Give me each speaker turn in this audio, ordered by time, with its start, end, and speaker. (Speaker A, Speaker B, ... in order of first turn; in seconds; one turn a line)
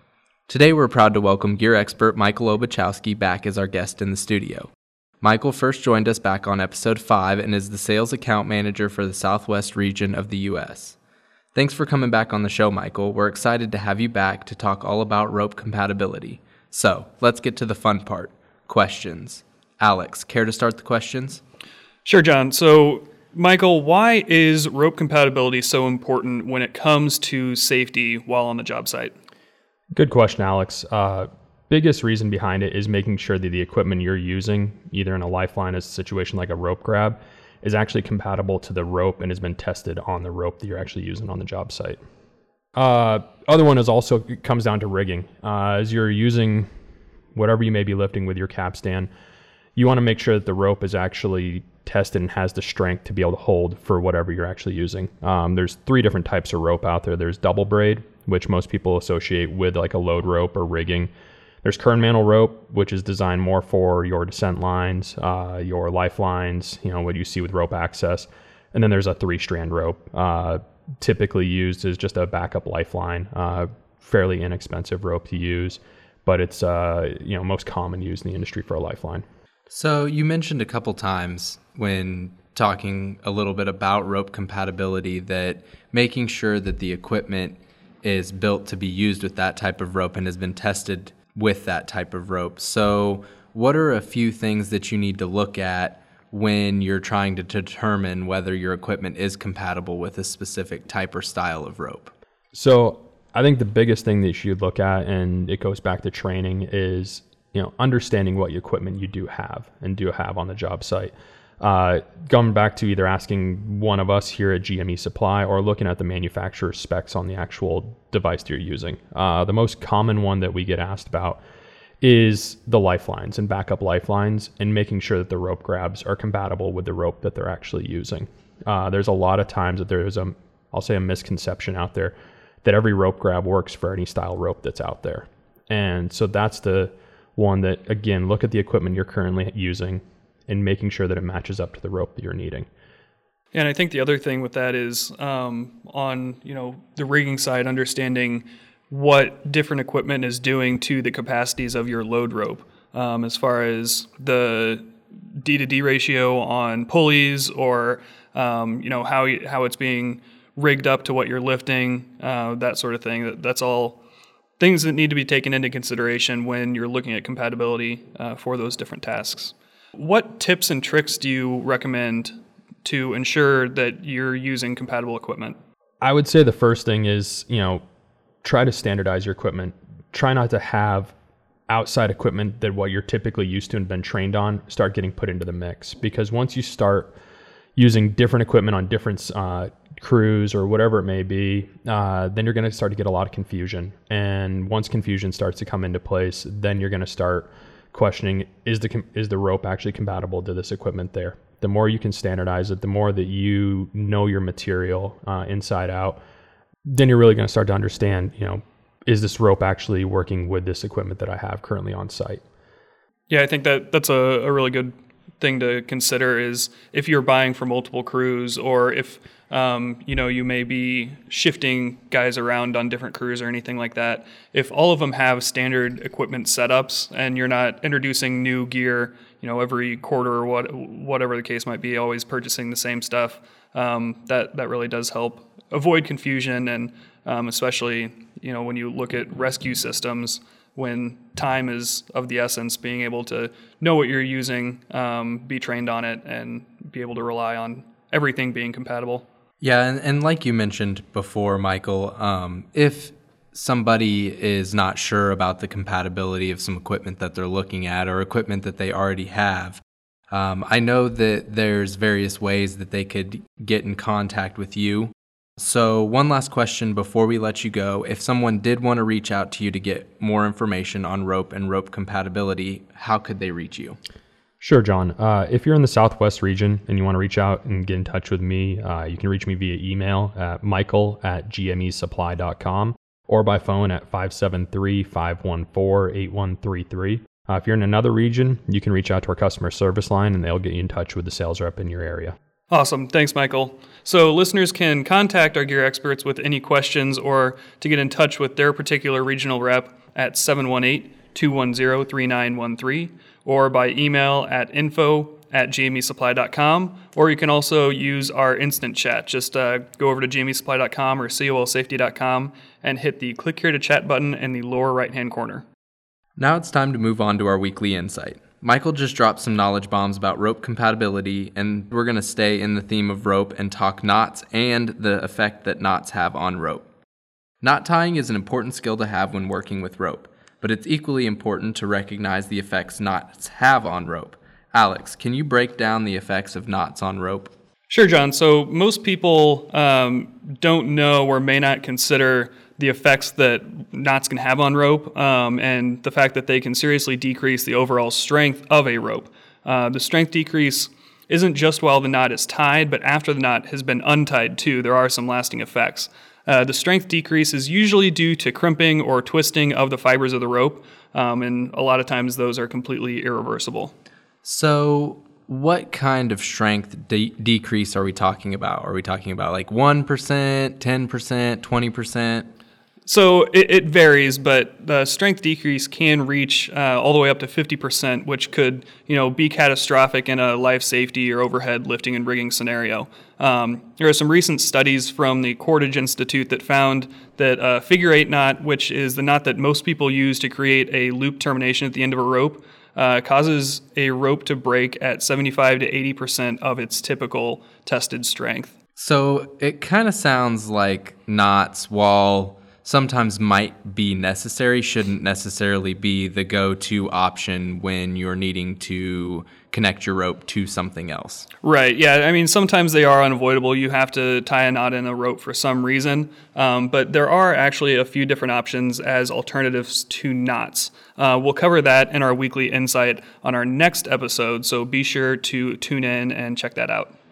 Speaker A: 0.5-11.0
Speaker A: 11.5-21.4
Speaker B: 22.0-29.1
Speaker C: 29.9-42.0
Speaker C: 42.8-46.7
Speaker C: 47.3-49.1
Speaker C: 49.8-61.1
Speaker C: 61.6-79.2
Speaker A: 79.7-102.1
Speaker C: 102.5-121.4
Speaker C: 122.0-142.7
Speaker B: 143.5-164.0
Speaker B: 164.6-172.3
Speaker B: 172.8-175.6
Speaker C: 176.0-177.8
Speaker C: 178.4-181.1
Speaker C: 181.7-187.1
Speaker C: 187.8-206.2
Speaker C: 206.9-212.4
Speaker B: 213.3-249.2
Speaker A: 249.6-274.0
Speaker C: 274.6-292.3
Speaker B: 292.7-315.6
Speaker A: 316.4-326.9
Speaker A: 327.6-337.5
Speaker B: 337.9-363.9
Speaker A: 364.4-372.5
Speaker B: 373.1-398.7
Speaker A: 398.9-411.5
Speaker B: 411.6-427.1